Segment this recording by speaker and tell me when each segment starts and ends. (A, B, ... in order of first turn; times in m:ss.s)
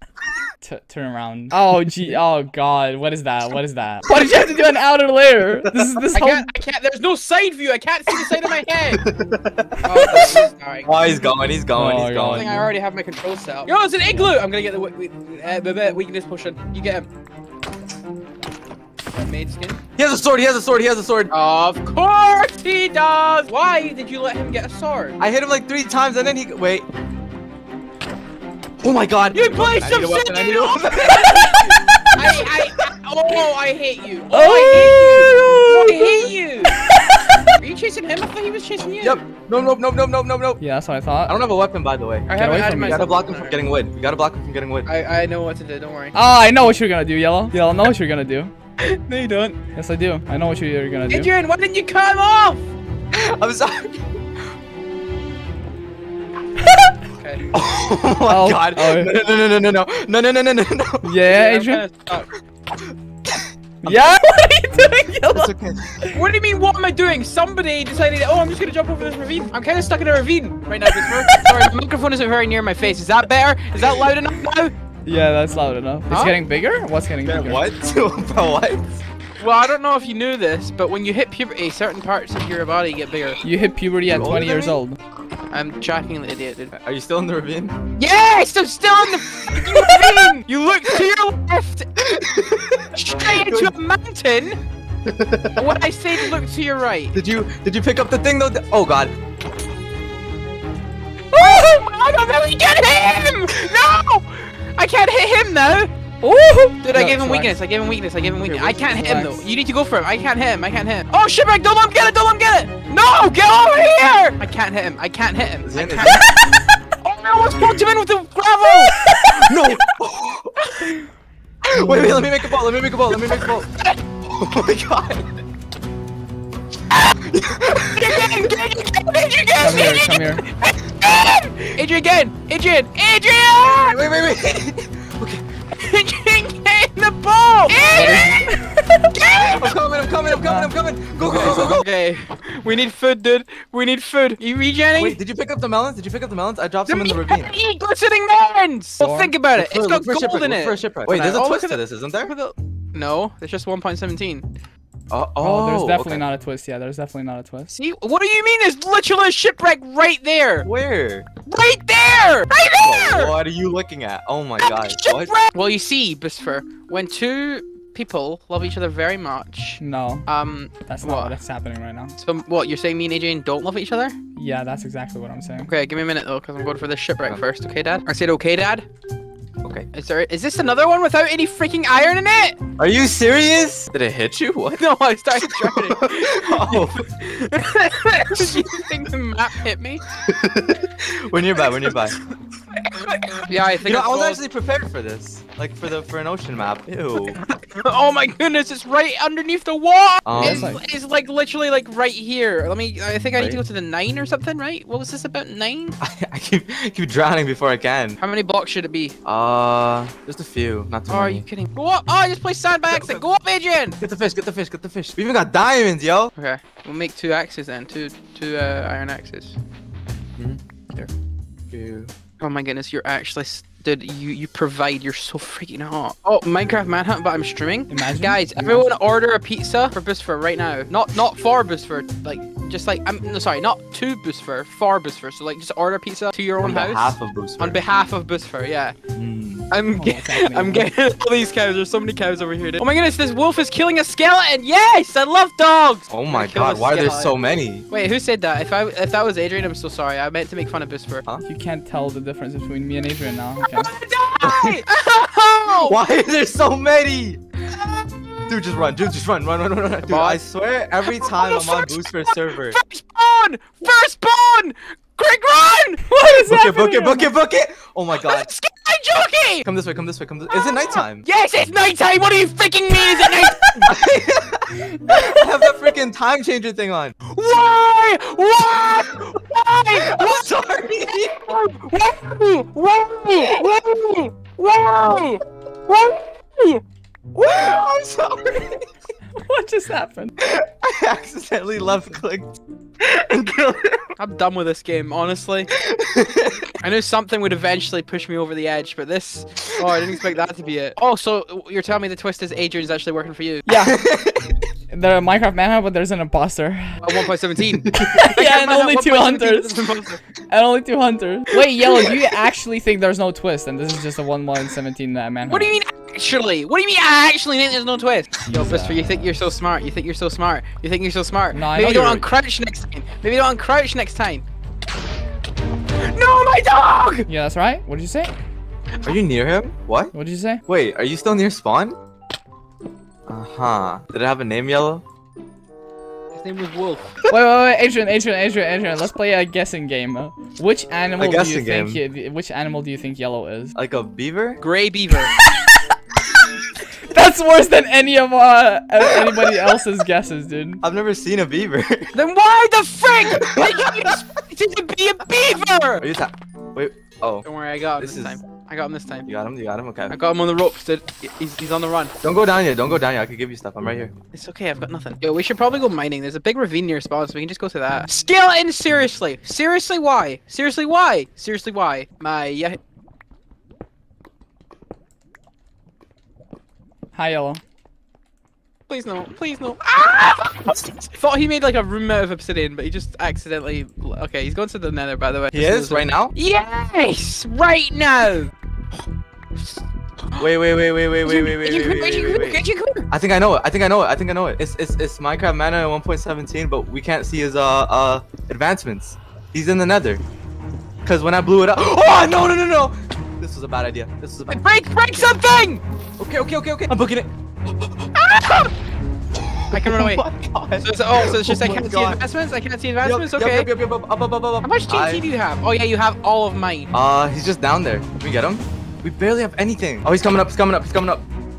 0:00.6-0:06.5 A
0:06.1-0:09.0 B
0:08.9-0:12.6 C
0:09.8-0:11.1 B
0:11.7-0:12.7 A
0:12.3-0:17.1 B
0:19.1-0:19.8 B
0:20.0-0:21.3 C
0:21.3-0:25.2 B
0:25.2-0:26.9 C
0:28.8-0:32.5 C
0:29.3-0:36.9 B
0:34.3-0:36.2 A
0:36.8-0:37.5 A
0:37.6-0:39.2 B
0:39.0-0:40.6 C
0:40.6-0:41.4 A
0:41.3-0:44.9 C
0:42.3-0:43.7 B
0:42.3-0:43.1 A
0:44.9-0:46.2 B
0:46.2-0:48.5 A
0:48.8-0:49.6 B
0:49.8-0:51.3 A
0:51.1-0:52.7 B
0:53.1-0:54.1 C
0:56.7-0:56.9 A
0:57.2-0:57.4 B
0:57.5-1:01.1 C
0:58.3-0:59.1 A
1:01.0-1:01.8 A
1:01.3-1:02.3 B
1:02.8-1:04.0 C
1:03.8-1:06.2 A
1:05.3-1:06.1 C
1:06.1-1:14.7 B
1:15.0-1:17.6 A
1:16.1-1:16.4 B
1:17.2-1:19.0 C
1:19.4-1:23.4 B
1:23.4-1:25.0 A
1:24.0-1:24.8 C
1:25.5-1:26.7 B
1:26.7-1:27.8 C
1:28.0-1:31.9 B
1:29.3-1:30.3 C
1:32.0-1:33.8 C
1:33.0-1:34.6 B
1:35.0-1:36.3 C
1:35.6-1:37.2 B
1:37.1-1:39.2 C
1:41.3-1:45.9 B
1:41.3-1:41.7 A
1:46.2-1:47.6 A
1:46.8-1:56.4 B
1:48.4-1:49.4 A
1:55.6-1:56.3 C
1:57.0-1:59.0 B
1:59.0-1:59.4 A
1:59.2-2:00.6 C
2:01.6-2:03.7 C
2:04.2-2:05.3 C
2:07.2-2:08.6 C
2:07.9-2:14.0 B
2:09.6-2:10.4 A
2:13.7-2:15.4 C
2:15.8-2:18.5 B
2:17.9-2:18.5 C
2:18.5-2:19.0 A
2:19.1-2:19.8 B
2:19.5-2:21.8 C
2:20.4-2:20.7 A
2:21.2-2:25.2 B
2:25.0-2:27.5 C
2:26.9-2:34.5 B
2:29.0-2:29.3 A
2:29.6-2:32.3 C
2:35.1-2:36.2 C
2:35.4-2:37.7 A
2:37.7-2:40.7 B
2:40.6-2:41.3 C
2:41.4-2:43.4 B
2:42.8-2:45.4 C
2:44.6-2:51.4 B
2:49.8-2:50.3 A
2:50.8-2:52.2 A
2:52.2-2:54.2 B
2:54.4-2:55.7 A
2:55.7-2:58.9 B
2:59.6-2:59.9 C
2:59.9-3:02.6 B
3:02.8-3:04.8 C
3:04.8-3:10.1 B
3:05.4-3:07.1 C
3:08.3-3:08.8 C
3:10.2-3:12.2 C
3:12.8-3:14.4 B
3:13.8-3:17.4 C
3:17.3-3:26.0 B
3:20.2-3:20.8 C
3:20.4-3:20.8 A
3:26.0-3:28.2 C
3:28.2-3:29.2 B
3:29.2-3:31.5 C
3:31.1-3:34.0 B
3:32.9-3:33.2 C
3:34.0-3:36.3 C
3:36.4-3:39.6 B
3:41.7-3:42.1 C
3:42.4-3:59.0 B
3:47.9-3:48.9 A
3:56.6-3:57.8 C
3:59.2-3:59.7 C
3:59.7-4:07.4 B
4:00.0-4:00.9 A
4:06.1-4:07.9 C
4:07.9-4:11.2 B
4:11.4-4:13.9 A
4:13.6-4:16.0 B
4:14.4-4:14.8 C
4:15.7-4:17.9 C
4:18.5-4:22.8 C
4:20.1-4:20.4 B
4:21.0-4:26.1 B
4:26.1-4:27.3 A
4:26.3-4:28.5 C
4:28.2-4:29.7 B
4:29.6-4:31.3 C
4:30.6-4:33.9 B
4:33.8-4:37.2 C
4:37.3-4:40.4 B
4:38.6-4:39.2 C
4:39.9-4:41.5 C
4:41.3-4:46.8 B
4:43.4-4:43.8 C
4:47.4-4:47.8 B
4:47.4-4:48.9 C
4:49.4-4:50.3 A
4:50.4-4:54.1 C
4:54.2-4:55.7 B
4:55.7-4:56.7 C
4:56.8-5:03.7 B
4:59.8-5:00.0 C
5:03.7-5:04.0 A
5:03.8-5:04.6 C
5:04.9-5:07.2 A
5:07.0-5:10.2 B
5:07.8-5:08.2 C
5:08.1-5:09.8 A
5:10.5-5:15.8 A
5:11.9-5:12.2 C
5:15.5-5:24.4 B
5:18.5-5:19.2 A
5:21.5-5:22.3 A
5:26.0-5:27.3 B
5:27.3-5:28.3 A
5:29.0-5:30.1 C
5:30.1-5:30.6 A
5:30.6-5:32.0 C
5:33.3-5:35.0 C
5:36.3-5:37.2 B
5:37.3-5:43.7 A
5:41.2-5:42.0 C
5:43.8-5:44.6 C
5:44.6-5:45.4 B
5:45.4-5:45.7 A
5:47.1-5:50.8 A
5:50.8-5:52.2 C
5:52.1-5:56.1 B
5:53.2-5:54.2 C
5:56.0-5:57.5 C
5:57.4-5:59.3 B
5:58.0-5:58.4 C
5:59.3-6:00.2 C
6:00.1-6:02.2 B
6:02.2-6:04.1 C
6:04.3-6:12.8 B
6:17.1-6:17.6 A
6:18.9-6:28.5 B
6:25.5-6:26.3 C
6:29.6-6:30.5 B
6:30.4-6:40.2 C
6:31.2-6:33.1 B
6:41.0-6:44.6 C
6:44.5-6:45.8 B
6:46.2-6:48.2 C
6:48.2-6:48.7 B
6:49.4-6:52.2 C
6:49.7-6:50.2 B
6:50.8-6:53.7 B
6:53.0-6:55.2 C
6:54.6-6:56.9 B
6:56.9-7:01.2 C